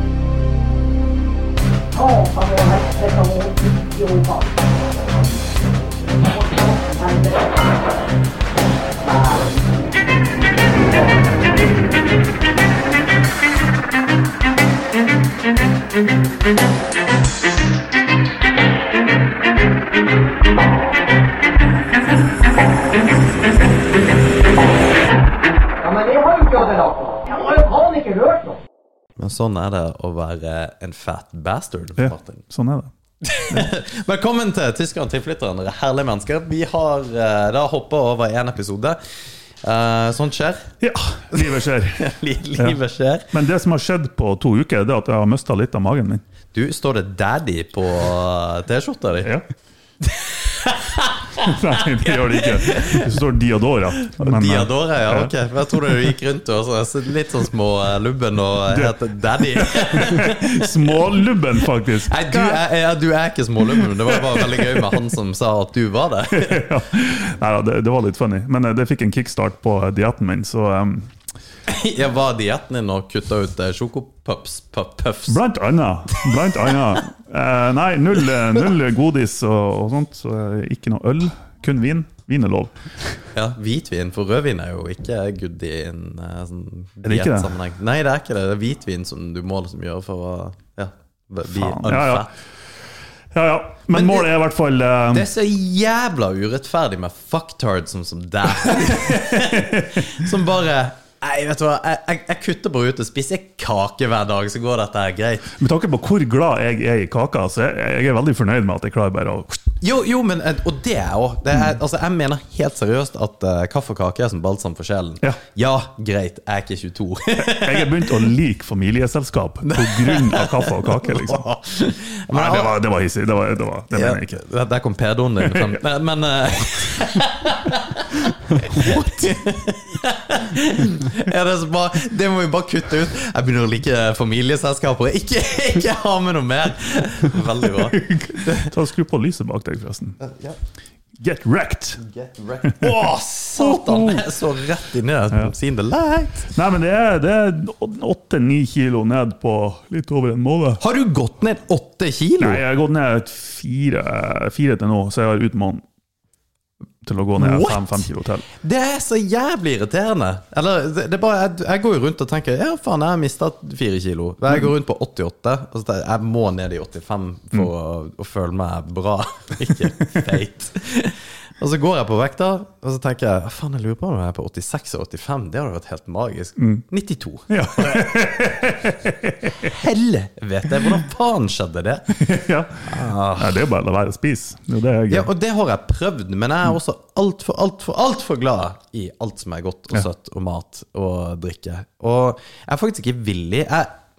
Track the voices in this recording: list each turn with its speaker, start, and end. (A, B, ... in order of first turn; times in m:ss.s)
0:01.9-0:04.7 A
0:06.1-0:07.8 A
0:09.0-0:09.9 A
0:25.8-0:28.6 A
0:29.2-0:32.4 B
0:32.0-0:32.9 C
0:33.2-0:39.0 B
0:39.6-0:40.7 B
0:40.8-0:42.8 C
0:41.3-0:43.3 B
0:43.3-0:46.2 C
0:46.5-0:49.3 B
0:50.1-0:51.5 B
0:51.4-0:55.3 C
0:52.0-0:53.2 B
0:54.0-1:00.9 B
0:58.7-1:02.6 C
1:02.1-1:06.7 B
1:04.1-1:05.0 C
1:06.3-1:11.1 C
1:11.7-1:15.4 B
1:15.3-1:22.7 C
1:23.3-1:32.3 B
1:27.0-1:27.5 C
1:31.5-1:32.3 C
1:33.3-1:35.3 C
1:33.9-1:34.3 B
1:35.1-1:45.5 B
1:39.2-1:39.8 C
1:45.6-1:49.6 C
1:49.8-1:58.2 B
1:57.4-2:01.5 C
1:59.7-2:02.8 B
2:02.3-2:04.4 C
2:03.9-2:18.7 B
2:05.5-2:05.8 C
2:08.8-2:09.1 C
2:17.7-2:20.2 C
2:20.2-2:20.6 B
2:21.2-2:22.0 C
2:22.0-2:26.5 B
2:22.6-2:24.3 C
2:26.5-2:30.8 C
2:30.8-2:32.6 B
2:32.4-2:35.8 C
2:37.0-2:38.4 C
2:37.4-2:58.1 B
2:56.6-2:56.8 C
2:57.5-2:59.7 C
2:59.6-3:02.2 B
3:02.1-3:05.3 C
3:02.8-3:03.6 B
3:05.1-3:13.9 B